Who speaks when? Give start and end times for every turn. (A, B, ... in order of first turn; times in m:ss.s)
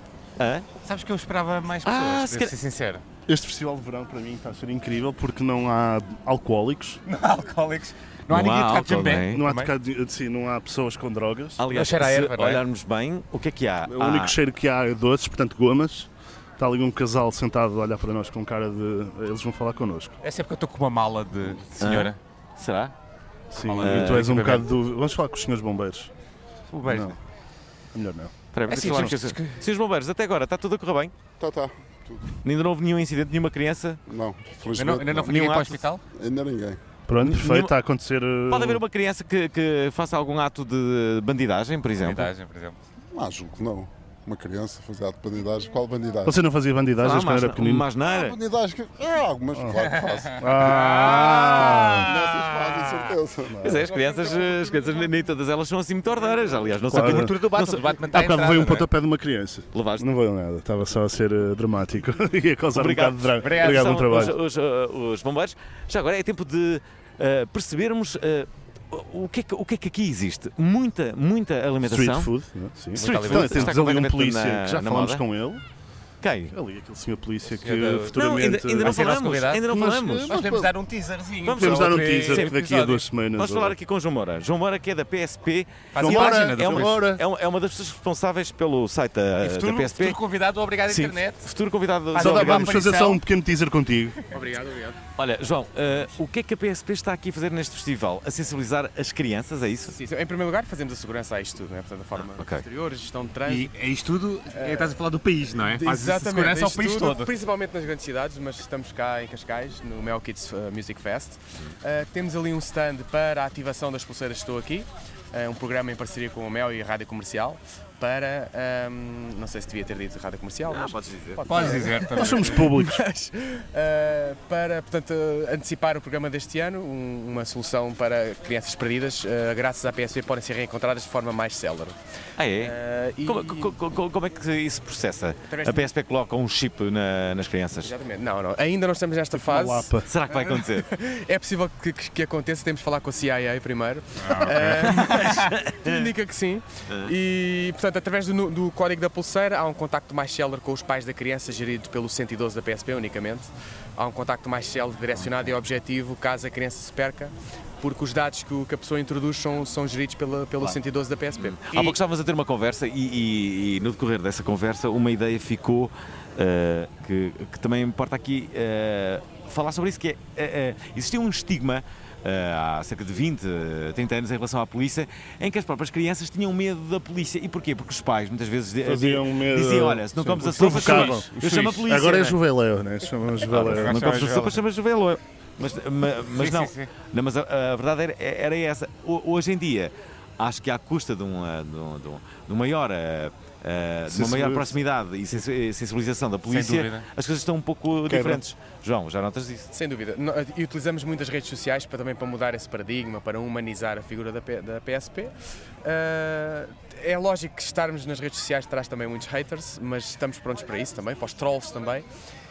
0:00.4-0:00.6 A
0:00.8-0:03.0 B
0:01.8-0:02.5 A
0:03.3-0:07.0 C
0:07.0-0:09.7 B
0:08.3-0:09.4 A
0:09.3-0:11.6 C
0:11.6-0:14.3 A
0:11.7-0:12.6 B
0:13.9-0:20.2 C
0:20.2-0:22.2 B
0:21.8-0:22.9 A
0:23.5-0:26.1 C
0:23.5-0:24.6 B
0:23.8-0:24.4 A
0:26.7-0:27.2 B
0:26.8-0:27.1 C
0:27.9-0:28.3 C
0:28.5-0:31.1 A
0:28.7-0:29.6 B
0:31.4-0:32.3 D
0:32.4-0:34.0 A
0:34.1-0:35.4 D
0:34.7-0:36.0 B
0:35.2-0:35.8 A
0:36.1-0:36.8 D
0:37.1-0:38.8 C
0:37.2-0:37.7 A
0:38.5-0:42.3 A
0:42.0-0:42.8 B
0:43.1-0:46.4 D
0:46.2-0:47.9 C
0:47.0-0:48.4 A
0:48.0-0:50.5 D
0:49.8-0:53.1 B
0:50.3-0:52.1 C
0:52.0-0:53.6 D
0:53.5-0:53.9 C
0:53.6-0:57.9 A
0:54.0-0:54.6 B
0:56.9-0:57.3 C
0:56.9-0:58.8 B
0:58.1-1:04.4 C
0:59.7-1:00.0 A
1:02.7-1:12.3 A
1:03.4-1:04.0 B
1:11.8-1:15.6 C
1:12.9-1:15.2 A
1:13.0-1:13.8 B
1:16.2-1:16.5 A
1:16.5-1:19.0 C
1:17.6-1:18.2 B
1:18.1-1:20.4 A
1:18.8-1:19.6 B
1:19.6-1:20.7 C
1:20.3-1:22.8 B
1:21.4-1:30.2 A
1:21.5-1:23.7 C
1:25.9-1:27.0 B
1:26.0-1:27.2 C
1:29.4-1:31.5 B
1:30.9-1:32.9 A
1:32.1-1:33.2 B
1:32.2-1:34.2 C
1:34.3-1:35.0 E
1:35.2-1:40.0 A
1:39.9-1:43.7 E
1:42.3-1:42.7 A
1:43.4-1:47.3 B
1:44.5-1:44.9 E
1:45.6-2:12.0 E
2:00.7-2:01.8 A
2:01.4-2:02.6 B
2:02.2-2:03.0 C
2:12.4-2:17.9 A
2:12.6-2:13.7 E
2:15.5-2:15.9 E
2:17.8-2:41.8 E
2:19.3-2:20.1 C
2:20.0-2:20.9 A
2:24.6-2:26.1 A
2:41.4-3:02.4 A
2:58.8-3:04.0 C
3:00.6-3:01.2 B
3:03.5-3:19.7 A
3:03.6-3:04.6 B
3:06.3-3:06.9 B
3:14.1-3:14.8 C
3:16.5-3:17.0 B
3:18.1-3:18.4 C
3:19.7-3:32.1 E